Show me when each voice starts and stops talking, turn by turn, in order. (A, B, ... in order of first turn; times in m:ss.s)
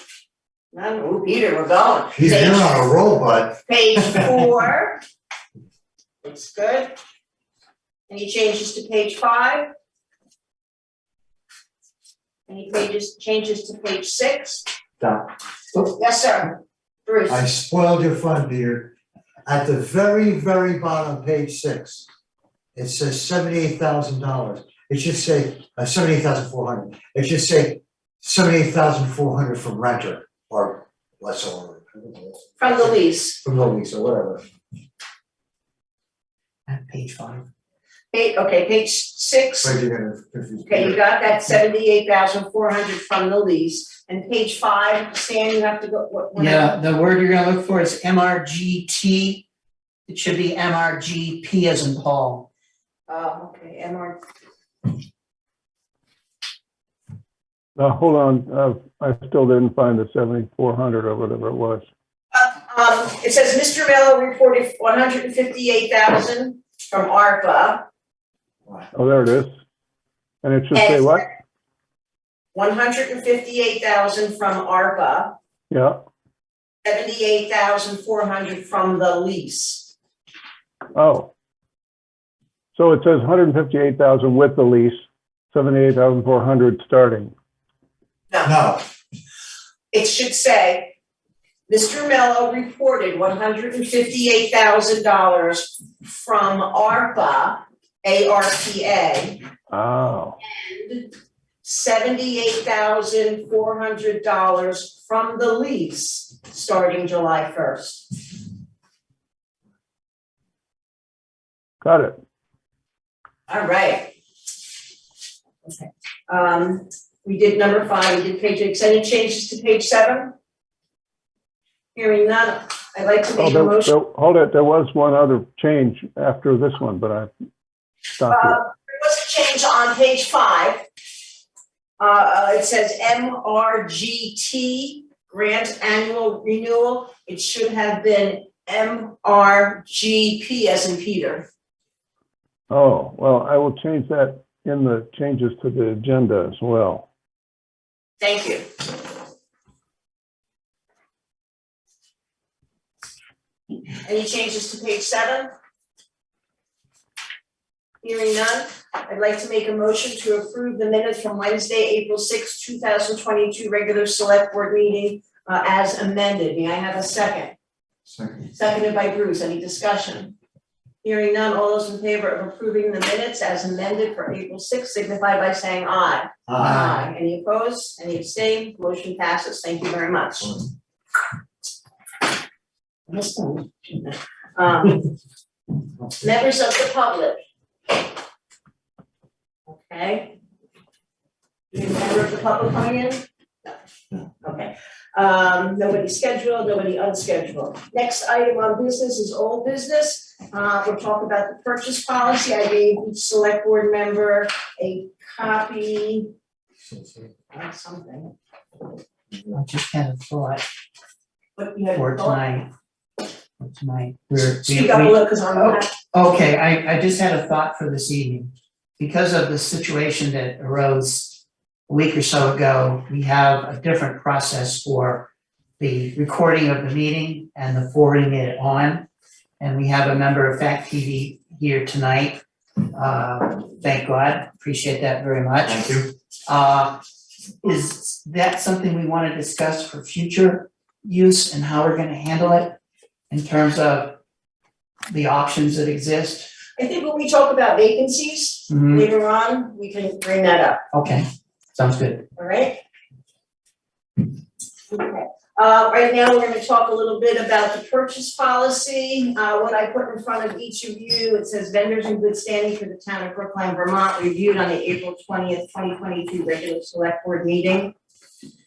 0:00.7-0:02.8 A
0:02.1-0:04.4 B
0:03.7-0:05.0 A
0:06.2-0:06.9 A
0:08.1-0:09.7 A
0:12.5-0:14.6 A
0:15.0-0:15.2 B
0:15.8-0:17.4 A
0:17.3-0:22.1 B
0:22.8-0:34.4 B
0:32.6-0:33.4 A
0:36.7-0:37.5 C
0:38.1-0:39.7 A
0:39.6-0:41.0 B
0:40.7-0:46.7 A
0:46.3-0:49.4 C
0:50.1-0:52.5 C
0:53.1-0:54.2 A
0:57.8-1:01.9 D
1:02.3-1:07.8 A
1:08.9-1:09.5 D
1:10.4-1:11.2 D
1:10.7-1:11.3 A
1:12.5-1:15.3 A
1:15.7-1:16.0 D
1:16.8-1:19.9 A
1:20.9-1:21.3 D
1:22.7-1:27.3 D
1:28.4-1:28.8 B
1:29.9-1:30.9 A
1:31.7-1:39.4 A
1:39.7-1:40.4 D
1:40.4-1:41.1 A
1:41.6-1:48.1 A
1:51.8-1:52.2 D
1:53.5-1:54.1 A
1:55.6-2:00.3 A
2:01.9-2:03.9 A
2:03.4-2:07.3 D
2:08.2-2:08.6 D
2:08.3-2:10.8 A
2:12.0-2:21.5 A
2:22.7-2:27.0 D
2:28.2-2:28.6 A
2:34.0-2:35.5 A
2:38.0-2:47.5 A
2:48.0-2:48.5 B
2:48.5-2:50.3 A
2:51.0-3:00.6 A
2:56.5-2:56.9 B
2:56.6-2:57.1 C
3:03.1-3:05.0 A
3:06.2-3:07.4 A
3:09.7-3:10.3 A
3:11.7-3:13.7 A
3:14.4-3:26.3 A
3:26.9-3:27.2 B
3:27.5-3:28.3 A
3:29.5-3:30.6 C
3:31.6-3:32.4 A
3:31.9-3:32.7 C
3:33.6-3:45.3 C
3:34.4-3:35.9 A
3:45.8-3:49.0 C
3:49.6-3:52.4 C
3:52.9-3:57.0 C
3:55.6-3:56.1 B
3:57.6-4:02.8 C
4:03.3-4:04.2 C
4:05.1-4:06.5 C
4:06.8-4:10.8 A
4:08.7-4:09.1 C
4:10.9-4:12.2 C
4:12.4-4:12.8 A
4:14.9-4:27.9 A